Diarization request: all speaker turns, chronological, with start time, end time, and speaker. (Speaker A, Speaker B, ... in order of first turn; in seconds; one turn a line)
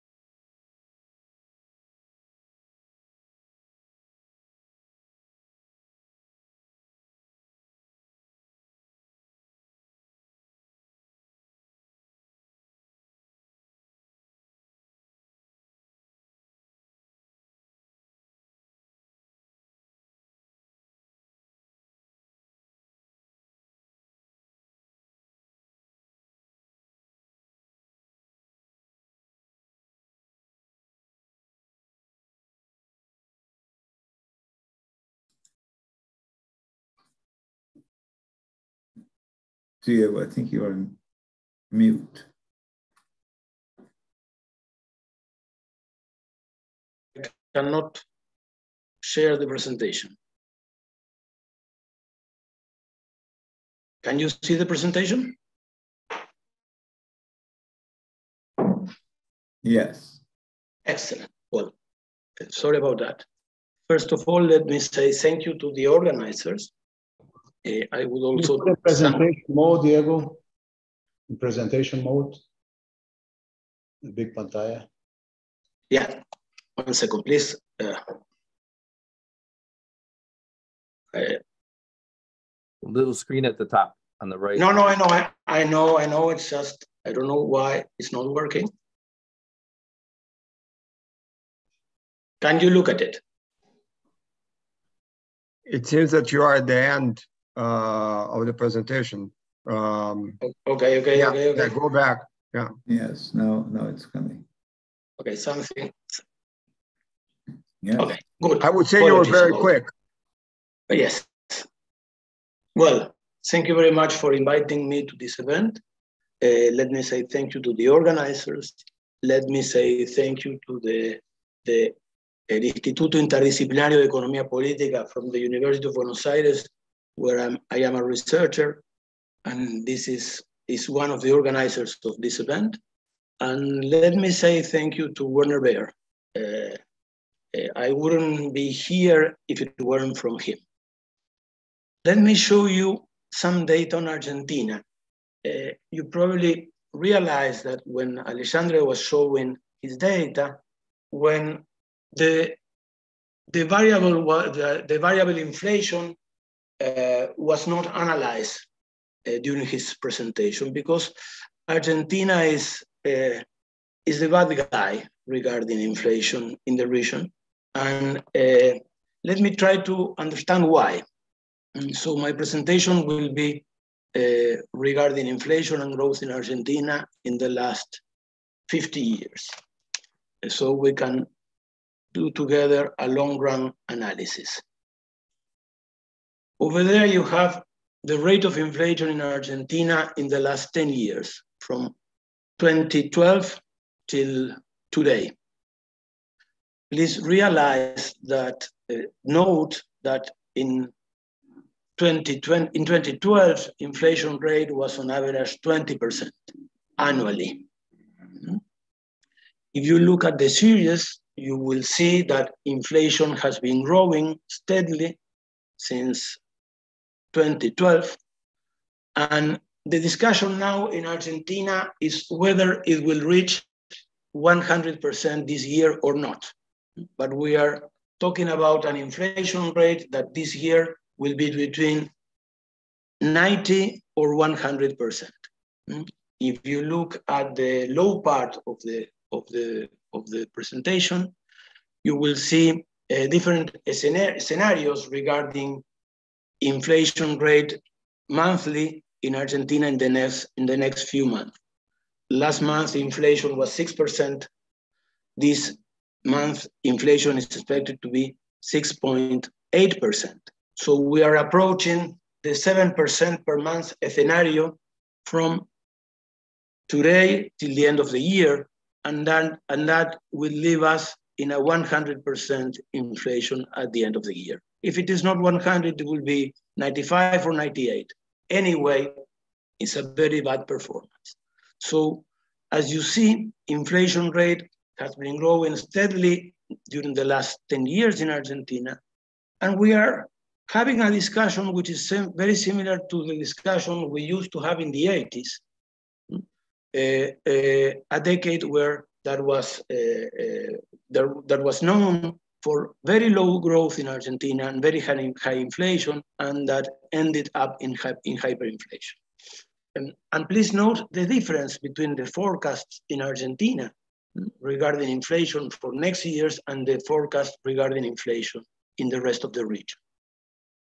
Speaker A: 39.8-41.0
Speaker A: 41.7-42.3
Speaker B: 47.1-48.0
Speaker B: 49.0-50.1
Speaker B: 54.0-55.4
Speaker A: 59.6-60.2
Speaker B: 60.9-61.7
Speaker B: 62.4-63.2
Speaker B: 63.9-66.7
Speaker B: 67.6-69.2
Speaker C: 68.4-70.4
Speaker C: 71.3-72.4
Speaker C: 74.0-74.9
Speaker B: 75.9-76.2
Speaker B: 76.8-78.0
Speaker B: 81.1-81.4
Speaker D: 82.8-84.8
Speaker B: 84.5-88.7
Speaker B: 92.4-93.2
Speaker E: 95.7-100.4
Speaker B: 100.5-101.7
Speaker E: 101.1-102.7
Speaker A: 102.9-104.5
Speaker B: 105.2-106.2
Speaker A: 107.8-108.1
Speaker B: 108.0-109.7
Speaker E: 108.6-109.9
Speaker B: 110.9-111.7
Speaker B: 112.7-115.8
Speaker B: 116.4-122.0
Speaker B: 122.5-128.8
Speaker B: 129.4-132.8
Speaker B: 133.4-136.8
Speaker B: 137.5-140.6
Speaker B: 142.0-144.8
Speaker B: 145.4-150.6
Speaker B: 151.1-152.6
Speaker B: 153.5-156.2
Speaker B: 156.8-158.7
Speaker B: 159.3-161.1
Speaker B: 161.7-163.4
Speaker B: 164.1-171.1
Speaker B: 171.7-178.0
Speaker B: 178.7-179.6
Speaker B: 180.4-181.3
Speaker B: 182.1-184.6
Speaker B: 186.6-191.9
Speaker B: 192.6-195.3
Speaker B: 196.9-200.9
Speaker B: 202.0-206.4
Speaker B: 207.0-207.6
Speaker B: 209.7-215.2
Speaker B: 215.8-216.4
Speaker B: 217.3-218.2
Speaker B: 219.2-223.7
Speaker B: 224.3-226.5
Speaker B: 227.2-232.1
Speaker B: 233.2-235.3
Speaker B: 235.9-241.3
Speaker B: 242.0-245.8
Speaker B: 246.6-251.6
Speaker B: 252.3-254.5
Speaker B: 255.4-265.6
Speaker B: 266.9-279.1
Speaker B: 279.8-289.0
Speaker B: 289.6-295.6
Speaker B: 296.9-309.2
Speaker B: 309.9-313.9
Speaker B: 314.5-320.0